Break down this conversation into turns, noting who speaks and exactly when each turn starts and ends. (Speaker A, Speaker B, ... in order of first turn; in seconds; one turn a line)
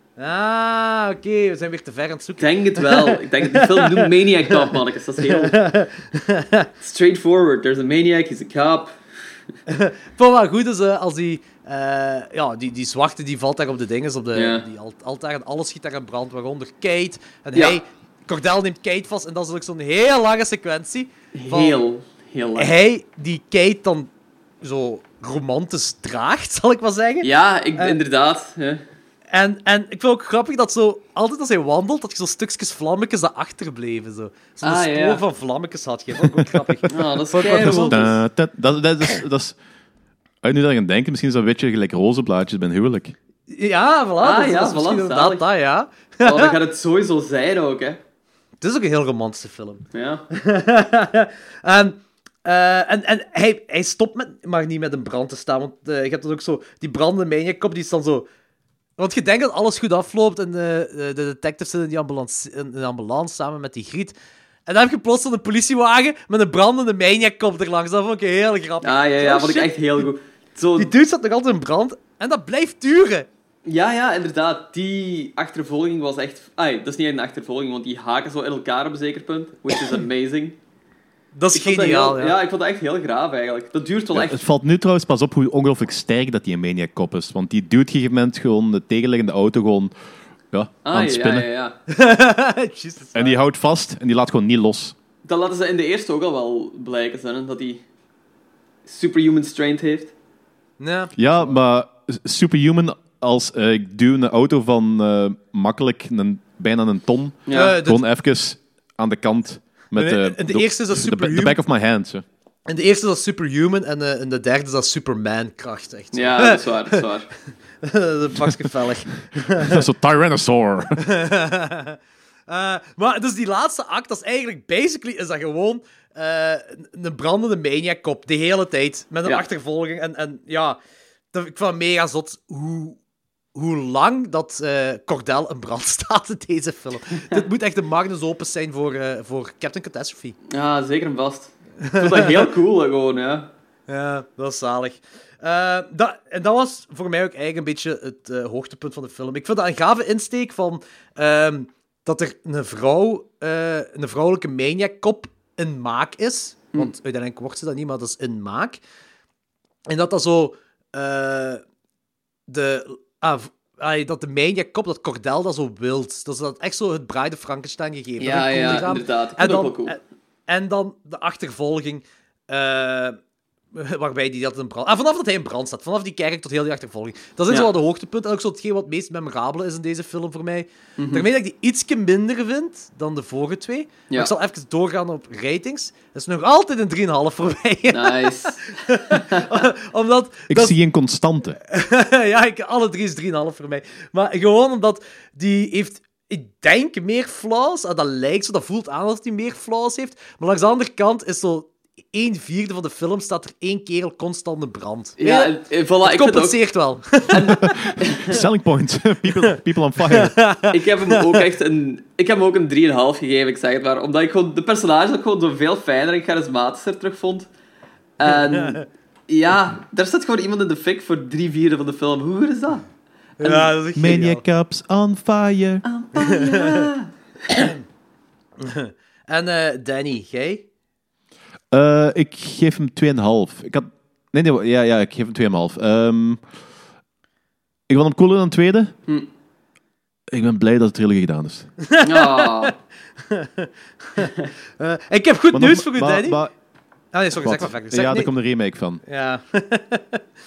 Speaker A: 0.2-6.7
Speaker B: 2.4-5.6
Speaker B: 6.8-9.0
Speaker A: 9.7-21.8
Speaker B: 14.3-14.7
Speaker B: 17.6-17.8
Speaker B: 21.3-22.7
Speaker A: 22.6-24.1
Speaker A: 24.6-28.0
Speaker B: 27.2-28.8
Speaker A: 29.3-38.1
Speaker B: 34.6-35.2
Speaker B: 36.9-38.1
Speaker C: 37.4-39.5
Speaker C: 40.4-43.1
Speaker A: 43.5-46.5
Speaker B: 44.2-45.4
Speaker B: 46.2-48.0
Speaker A: 48.6-58.3
Speaker B: 49.9-50.2
Speaker A: 59.0-64.1
Speaker A: 64.7-70.1
Speaker B: 68.8-71.0
Speaker A: 70.8-73.3
Speaker B: 73.6-80.6
Speaker A: 81.3-82.4
Speaker B: 81.5-84.4
Speaker C: 84.1-89.9
Speaker C: 90.5-91.5
Speaker B: 90.8-91.8
Speaker A: 91.9-93.4
Speaker C: 93.1-95.0
Speaker B: 95.2-97.8
Speaker B: 98.9-100.1
Speaker A: 100.8-101.6
Speaker C: 101.2-112.2
Speaker B: 107.5-107.8
Speaker A: 107.5-108.0
Speaker A: 110.0-111.6
Speaker A: 112.7-117.0
Speaker B: 116.1-117.3
Speaker A: 117.8-119.8
Speaker C: 119.5-121.0
Speaker A: 121.0-130.8
Speaker A: 131.3-133.0
Speaker A: 133.5-140.4
Speaker B: 140.5-143.5
Speaker A: 141.8-142.5
Speaker A: 143.9-158.8
Speaker A: 159.9-161.6
Speaker A: 162.5-173.2
Speaker B: 168.2-170.0
Speaker A: 173.7-190.7
Speaker B: 181.0-181.3
Speaker B: 187.9-189.6
Speaker C: 190.5-191.6
Speaker A: 191.6-207.9
Speaker B: 205.2-206.6
Speaker B: 207.2-208.4
Speaker C: 208.2-210.4
Speaker A: 210.1-211.4
Speaker B: 210.7-217.5
Speaker B: 218.2-222.8
Speaker A: 218.3-218.8
Speaker A: 223.4-224.4
Speaker B: 223.4-223.7
Speaker C: 223.9-225.8
Speaker B: 225.9-227.7
Speaker A: 226.2-226.9
Speaker A: 227.5-227.8
Speaker A: 228.6-230.6
Speaker C: 231.7-236.4
Speaker C: 237.9-238.9
Speaker C: 240.3-241.7
Speaker A: 241.8-242.7
Speaker B: 242.0-242.7
Speaker A: 243.2-246.4
Speaker C: 245.5-246.5
Speaker A: 247.1-248.3
Speaker C: 247.3-249.0
Speaker A: 249.1-250.2